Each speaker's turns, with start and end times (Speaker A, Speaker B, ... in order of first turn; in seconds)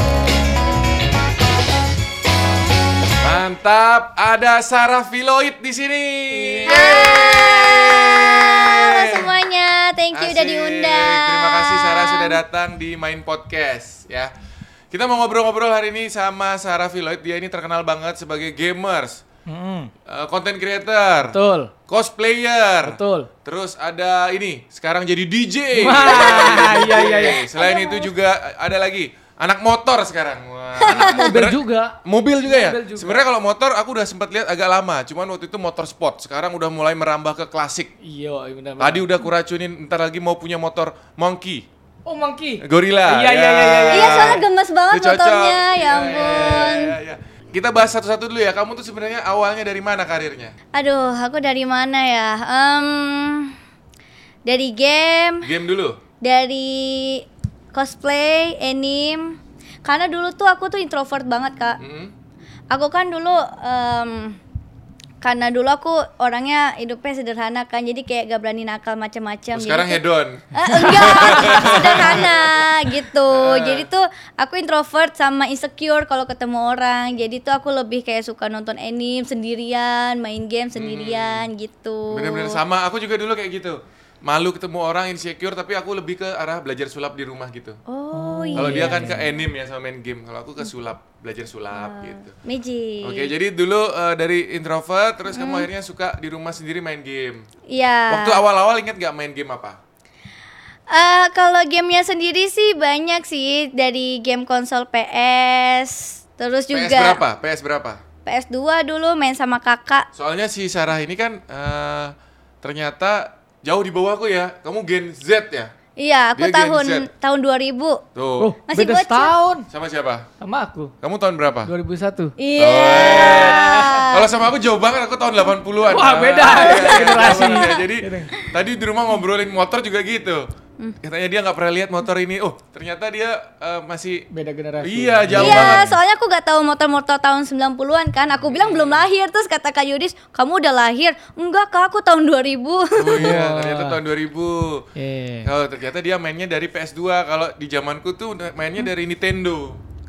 Speaker A: 3.2-9.3, 10.1-14.3, 14.9-19.3, 20.1-37.9, 38.8-41.7, 42.6-50.5, 55.4-56.0, 61.8-62.1, 69.5-73.9, 80.8-81.5, 82.1-87.8, 88.6-92.3, 93.0-97.5, 98.1-99.8, 106.7-108.0, 110.1-115.7, 116.4-117.1, 118.2-118.5, 119.7-120.3, 121.0-121.7, 122.6-130.5, 131.0-134.3, 134.8-136.0, 138.3-139.1, 142.9-144.9, 145.4-149.8
Speaker B: 6.3-7.1, 19.5-19.9, 21.2-21.7, 22.8-23.3, 25.8-27.4, 30.9-33.2, 38.0-39.2, 42.1-44.4, 46.1-46.8, 88.1-89.2, 118.4-119.7, 120.4-120.9, 121.6-122.3, 123.2-124.1, 125.8-128.4, 134.3-135.9, 143.2-144.0, 145.0-145.5
Speaker C: 6.6-12.4, 26.1-28.1, 30.8-31.4, 43.9-47.0, 50.7-53.5, 54.5-55.5, 56.2-61.8, 62.7-64.4, 65.2-70.0, 70.5-82.6, 87.9-89.2, 91.7-93.3, 95.3-95.7, 97.7-98.4, 100.9-107.2, 108.3-110.1, 116.0-118.0, 118.7-119.3, 122.4-124.3, 126.4-127.8, 135.3-143.3